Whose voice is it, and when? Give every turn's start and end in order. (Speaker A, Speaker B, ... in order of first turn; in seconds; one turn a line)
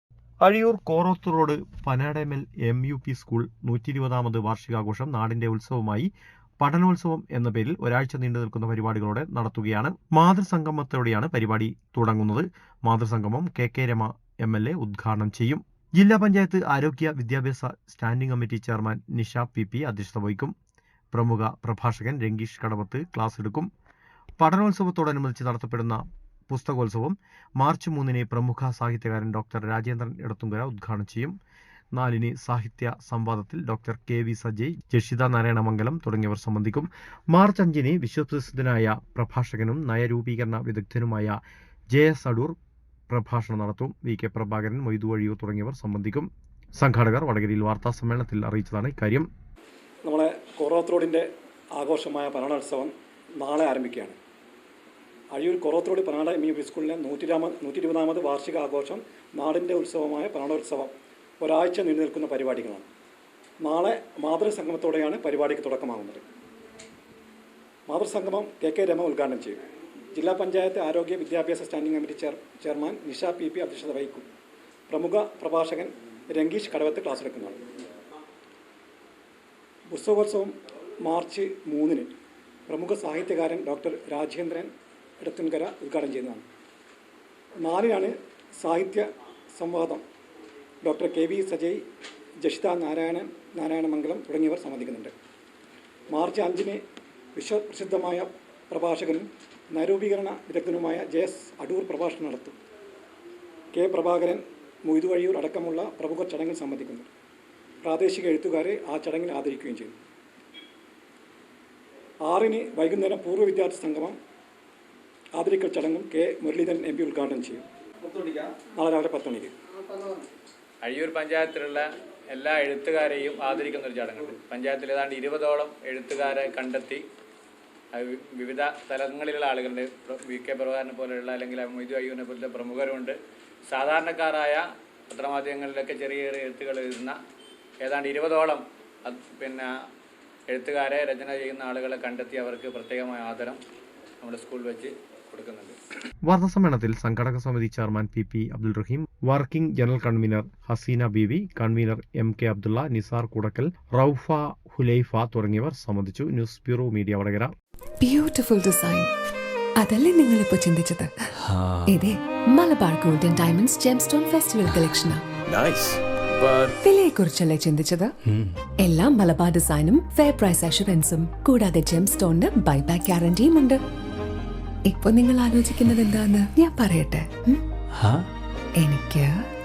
Speaker A: 0.4-20.5
Speaker A: 21.1-23.7
Speaker A: 24.4-31.3
Speaker A: 31.9-41.4
Speaker A: 41.9-42.5
Speaker A: 43.1-49.3
Speaker B: 50.0-54.2
Speaker B: 55.3-62.9
Speaker B: 63.6-66.2
Speaker B: 67.9-69.6
Speaker B: 70.1-74.3
Speaker B: 74.9-77.6
Speaker B: 79.9-82.1
Speaker B: 82.7-86.5
Speaker B: 87.6-90.0
Speaker B: 90.8-91.8
Speaker B: 92.4-95.1
Speaker B: 96.1-96.8
Speaker B: 97.3-102.6
Speaker B: 103.7-107.1
Speaker B: 107.8-110.0
Speaker B: 112.2-114.2
Speaker B: 115.4-117.7
Speaker B: 118.6-119.5
Speaker C: 120.8-127.0
Speaker C: 127.9-133.2
Speaker C: 133.7-137.2
Speaker C: 137.8-139.7
Speaker C: 140.5-143.6
Speaker C: 144.2-145.8
Speaker A: 146.3-157.5
Speaker D: 158.0-159.1
Speaker D: 159.8-161.3
Speaker D: 161.9-165.2
Speaker C: 166.3-166.7
Speaker D: 166.8-168.1
Speaker D: 168.8-173.8
Speaker D: 174.9-177.6
Speaker D: 178.8-179.5